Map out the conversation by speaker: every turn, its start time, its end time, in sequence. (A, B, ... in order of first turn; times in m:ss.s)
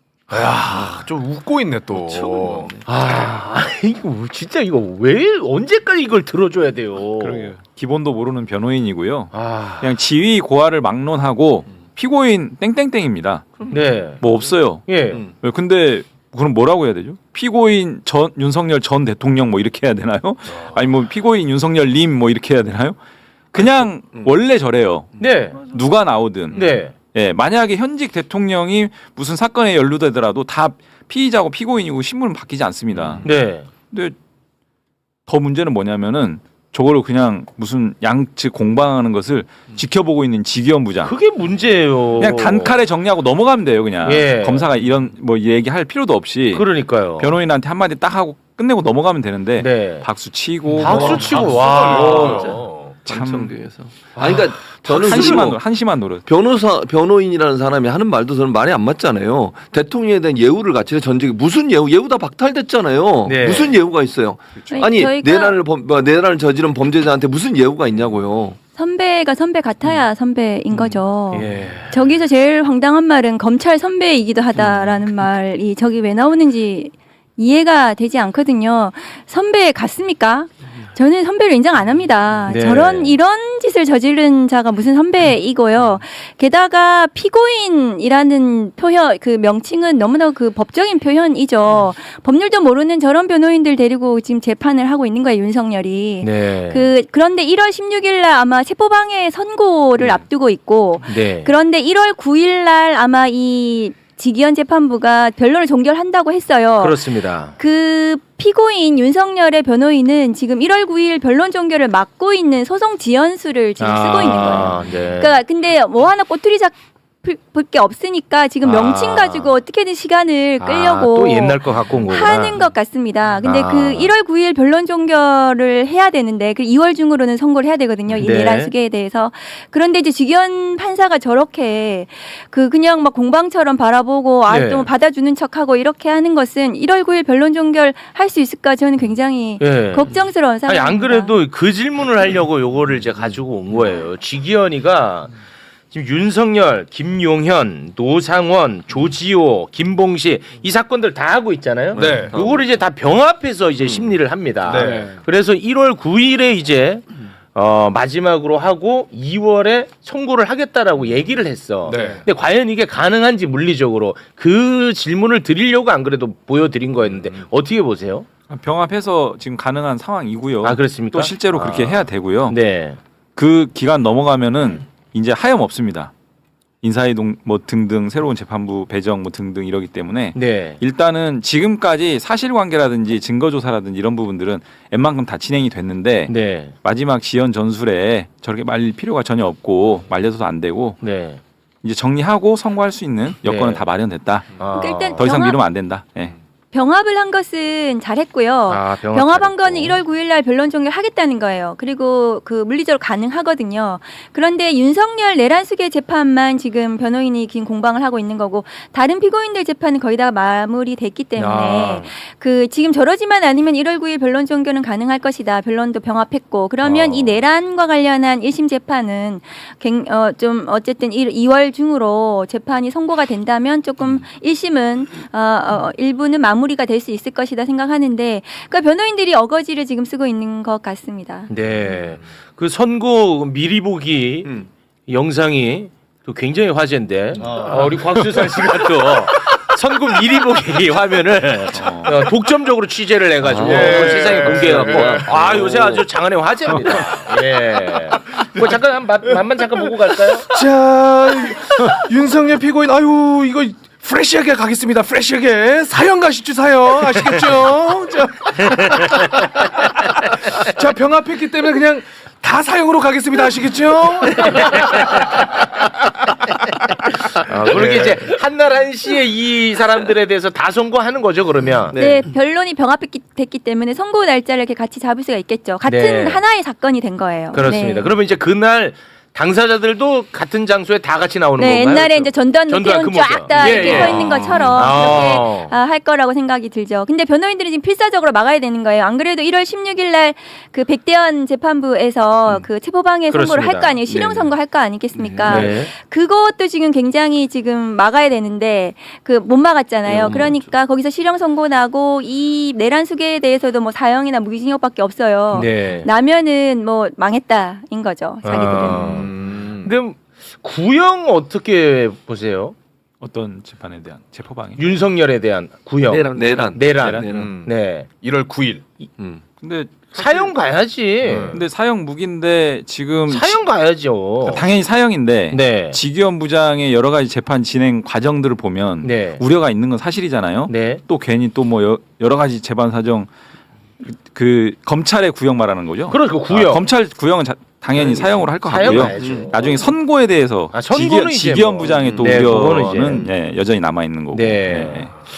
0:00.3-0:02.8 A
0:02.1-0:07.5 B
0:02.2-0:02.8 C
0:07.2-0:23.0 D
0:09.3-0:09.9 B
0:13.7-0:15.2 B
0:23.5-0:33.2 D
0:23.8-0:24.3 C
0:25.2-0:25.6 B
0:26.5-0:26.9 B
0:32.9-0:33.3 C
0:33.2-0:33.7 B
0:33.9-0:34.1 D
0:35.3-0:41.1 D
0:41.0-0:42.8 B
0:42.2-0:51.3 D
0:44.0-0:44.6 B
0:46.5-0:47.3 B
0:49.6-0:50.1 B
0:50.8-0:52.7 B
0:50.8-0:55.7 C
0:51.0-0:53.0 A
0:53.0-0:53.6 D
0:54.8-0:56.2 D
0:55.0-0:55.5 B
0:56.2-1:08.6 C
1:03.2-1:03.8 B
1:04.7-1:05.6 E
1:08.8-1:47.0 E
1:11.3-1:11.9 B
1:22.5-1:23.2 B
1:36.2-1:36.9 B
1:41.0-1:41.5 B
1:46.8-1:47.6 B
1:47.6-2:21.3 E
1:53.8-1:55.4 B
1:58.6-1:59.5 B
2:00.6-2:02.6 B
2:03.4-2:04.1 B
2:08.1-2:08.7 B
2:14.5-2:14.9 B
2:19.6-2:25.3 B
2:25.9-2:48.3 B
2:31.9-2:32.4 A
2:32.0-2:32.7 C
2:34.6-2:35.2 A
2:41.8-2:42.2 A
2:48.5-2:52.6 D
2:50.6-2:53.0 B
2:53.4-2:56.1 D
2:56.8-3:11.0 D
3:00.4-3:00.8 B
3:06.3-3:06.7 B
3:11.0-3:11.4 B
3:11.8-3:16.3 D
3:13.4-3:13.8 B
3:14.6-3:15.2 B
3:14.7-3:15.6 E
3:16.7-3:51.5 E
3:18.7-3:20.0 B
3:31.4-3:32.0 B
3:36.8-3:37.4 B
3:51.5-3:54.5 B
3:55.1-4:10.5 B
3:57.4-3:59.2 A
4:01.8-4:02.1 D
4:03.4-4:05.9 C
4:03.6-4:06.0 A
4:06.7-4:07.4 A
4:08.3-4:08.7 A
4:09.9-4:19.3 A
4:18.9-4:19.3 B
4:20.5-4:25.4 A
4:24.3-4:25.2 B
4:27.4-4:31.9 B
4:27.5-4:28.4 A
4:31.9-4:32.3 C
4:31.9-4:38.1 E
4:35.8-4:36.4 B
4:37.5-4:45.7 B
4:41.6-5:09.3 E
4:43.5-4:45.3 C
4:53.3-4:54.0 B
4:54.1-4:54.6 C
4:55.1-4:55.8 C
4:55.4-4:55.9 B
5:00.0-5:00.7 C
5:05.5-5:06.1 B
5:08.4-5:09.9 A
5:08.5-5:12.8 B
5:13.2-5:14.9 D
5:14.8-5:18.1 B
5:16.0-5:17.6 C
5:16.6-5:17.4 D
5:17.3-5:18.8 A
5:19.6-5:20.5 D
5:20.1-5:21.6 B
5:21.2-5:21.6 A
5:21.5-5:23.6 D
5:23.3-5:24.6 B
5:24.4-5:33.3 D
5:25.5-5:26.0 B
5:29.0-5:29.4 B
5:30.7-5:31.0 B
5:34.0-5:45.1 D
5:36.1-5:36.9 B
5:37.9-5:39.9 B
5:38.8-5:39.8 C
5:40.7-5:43.3 B
5:41.9-5:42.9 C
5:44.3-5:45.1 B